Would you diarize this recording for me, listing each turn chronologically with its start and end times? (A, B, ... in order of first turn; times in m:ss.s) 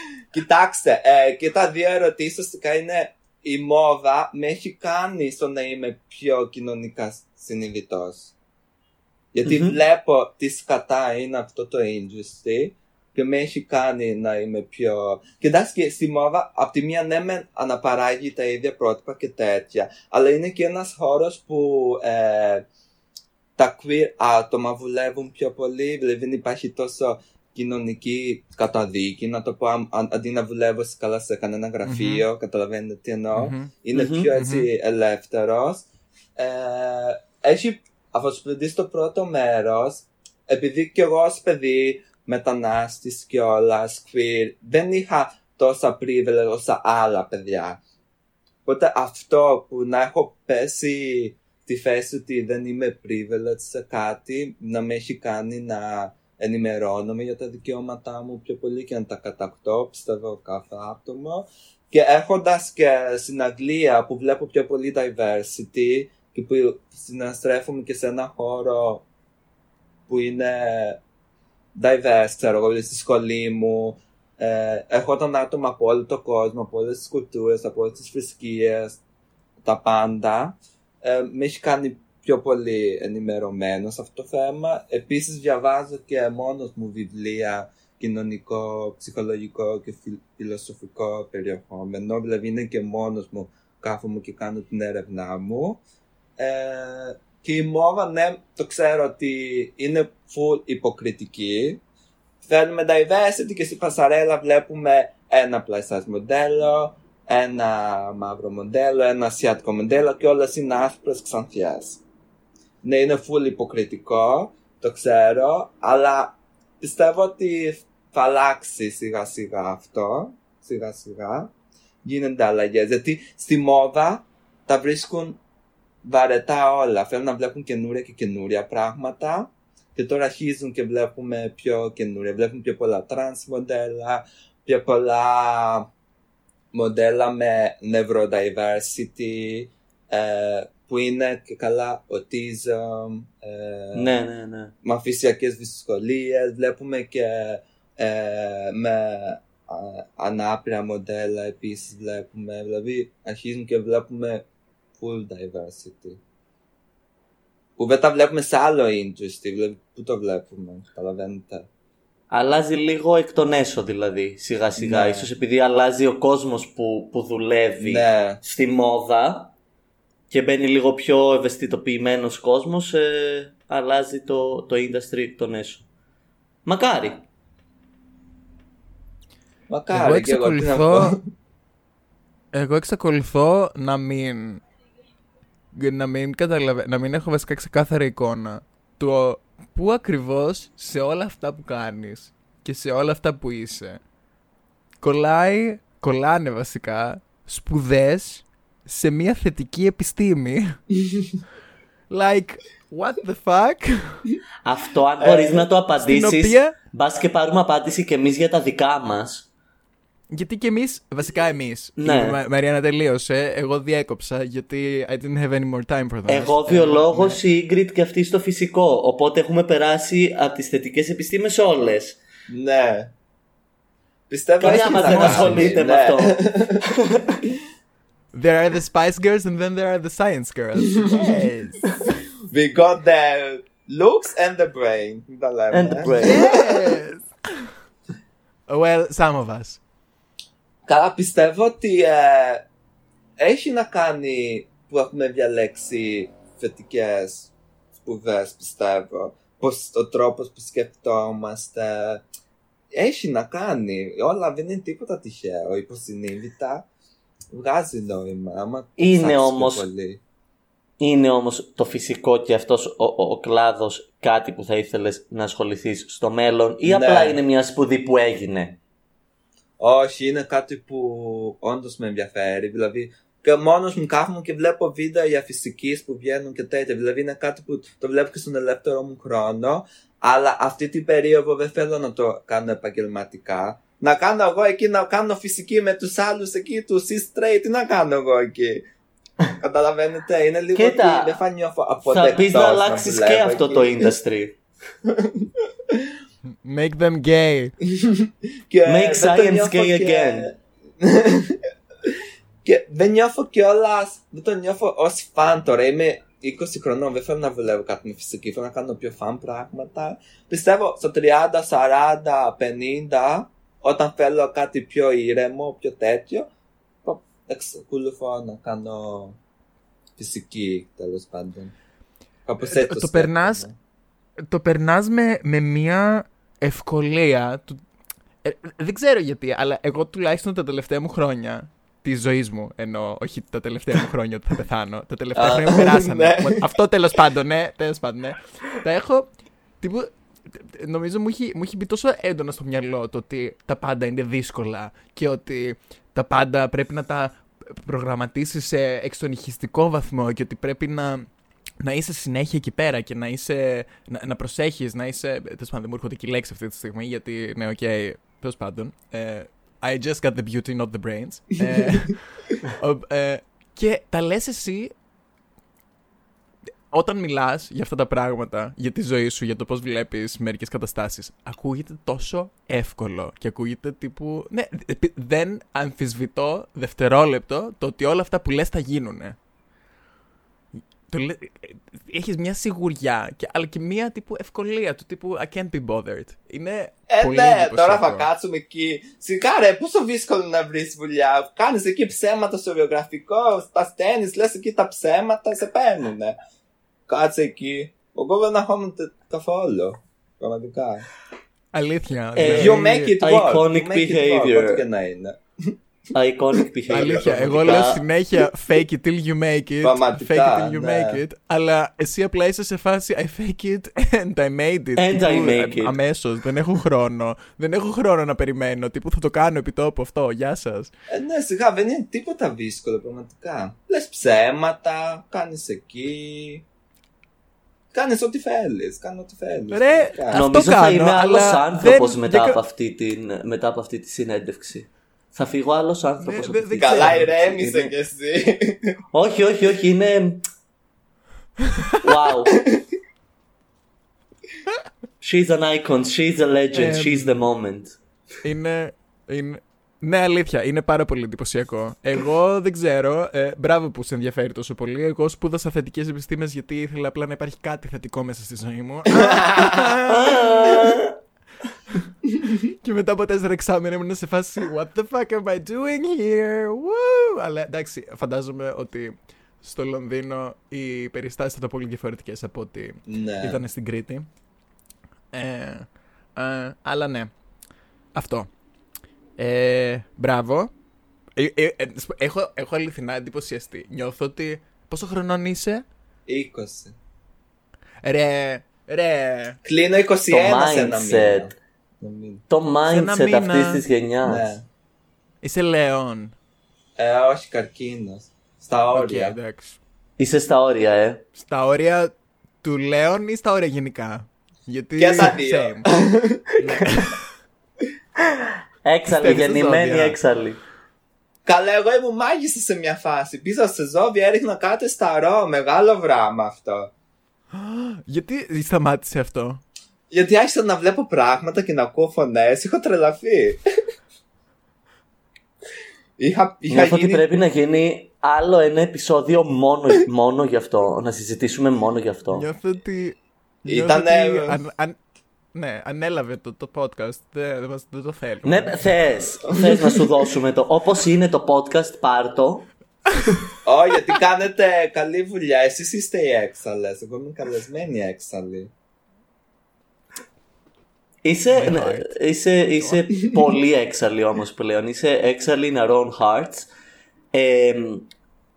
0:00.3-0:08.3 A
0:09.3-0:22.6 A
0:09.4-0:09.8 B
0:23.6-0:35.9 A
0:31.8-0:32.2 C
0:33.3-0:33.7 C
0:33.9-0:34.3 B
0:34.4-0:34.7 C
0:36.4-0:47.8 A
0:48.6-1:09.0 A
1:10.1-1:11.0 A
1:11.8-1:19.0 A
1:19.6-1:35.8 A
1:36.4-1:41.8 A
1:42.4-1:52.0 A
1:52.8-2:01.5 A
2:02.0-2:05.4 A
2:06.0-2:15.9 A
2:16.7-2:24.1 A
2:24.0-2:24.7 B
2:24.8-2:34.4 A
2:35.0-2:36.2 A
2:37.8-2:41.7 A
2:42.3-2:49.5 B
2:44.8-2:45.3 A
2:47.8-2:48.4 A
2:50.3-2:55.8 B
2:56.7-2:57.2 B
2:59.7-3:01.2 A
2:59.9-3:01.2 C
3:02.5-3:04.6 C
3:05.7-3:14.0 C
3:15.0-3:20.8 C
3:21.1-3:21.4 A
3:22.1-3:24.2 C
3:24.6-3:29.5 B
3:25.2-3:25.7 A
3:26.0-3:26.7 C
3:30.3-3:37.4 C
3:32.0-3:32.4 B
3:36.3-3:42.2 B
3:42.5-3:43.1 A
3:44.3-3:46.8 A
3:44.6-3:46.4 B
3:44.9-3:45.7 C
3:48.3-3:52.1 C
3:52.5-3:56.6 A
3:55.7-3:56.5 B
3:56.2-3:57.3 C
3:58.7-3:59.8 C
4:00.9-4:02.7 A
4:03.4-4:12.2 A
4:13.0-4:16.9 A
4:17.5-4:20.2 A
4:19.0-4:19.8 B
4:21.0-4:28.8 B
4:26.8-4:27.4 A
4:29.8-4:48.8 A
4:49.6-4:54.1 A
4:50.8-4:51.4 B
4:52.1-4:54.6 B
4:55.0-4:56.1 A
4:56.6-4:57.8 C
4:57.9-5:02.1 A
4:58.8-5:00.5 B
5:02.6-5:16.5 A
5:17.0-5:19.4 A
5:20.2-5:21.7 A
5:22.5-5:23.8 A
5:22.6-5:23.7 C
5:24.5-5:27.8 C
5:28.4-5:39.3 C
5:35.4-5:36.6 A
5:39.8-5:51.3 C
5:51.8-6:04.9 C
6:06.9-6:19.4 C
6:21.1-6:28.3 C
6:27.1-6:36.4 A
6:37.1-6:41.1 A
6:41.7-6:43.1 C
6:42.4-6:44.8 B
6:42.5-6:45.7 A
6:46.2-6:48.0 B
6:46.9-6:47.9 A
6:46.9-7:00.9 C
6:49.8-6:51.2 A
6:55.0-6:56.0 B
7:01.1-7:06.6 A
7:07.9-7:10.4 A
7:09.7-7:12.6 C
7:10.3-7:17.9 B
7:16.2-7:17.3 C
7:16.8-7:19.0 A
7:19.1-7:20.4 B
7:22.0-7:22.6 B
7:25.2-7:28.0 B
7:26.7-7:27.4 C
7:28.4-7:40.4 C
7:40.1-7:41.2 B
7:42.6-7:54.3 C
7:53.1-7:53.6 A
7:55.3-7:57.3 C
7:58.2-7:58.5 C
7:59.4-8:00.7 C
8:01.4-8:05.8 C
8:06.3-8:07.0 A
8:08.0-8:09.6 C
8:09.6-8:12.4 A
8:10.3-8:11.5 B
8:12.5-8:14.5 B
8:12.9-8:13.8 C
8:14.2-8:14.6 A
8:15.4-8:16.3 C
8:17.0-8:19.4 A
8:18.9-8:19.8 C
8:20.2-8:21.2 B
8:21.4-8:25.9 C
8:25.0-8:26.4 A
8:26.6-8:27.2 C
8:28.8-8:30.6 B
8:29.1-8:30.2 C
8:31.4-8:36.9 A
8:37.5-8:39.6 C
8:40.1-8:43.6 A
8:46.2-8:47.2 A
8:46.7-8:52.5 B
8:52.3-8:55.0 C
8:53.7-8:54.6 A
8:55.5-8:58.9 C
8:58.4-9:02.7 B
8:59.6-9:00.0 A
9:03.6-9:08.7 A
9:11.2-9:16.7 B
9:11.5-9:12.1 C
9:17.3-9:18.1 B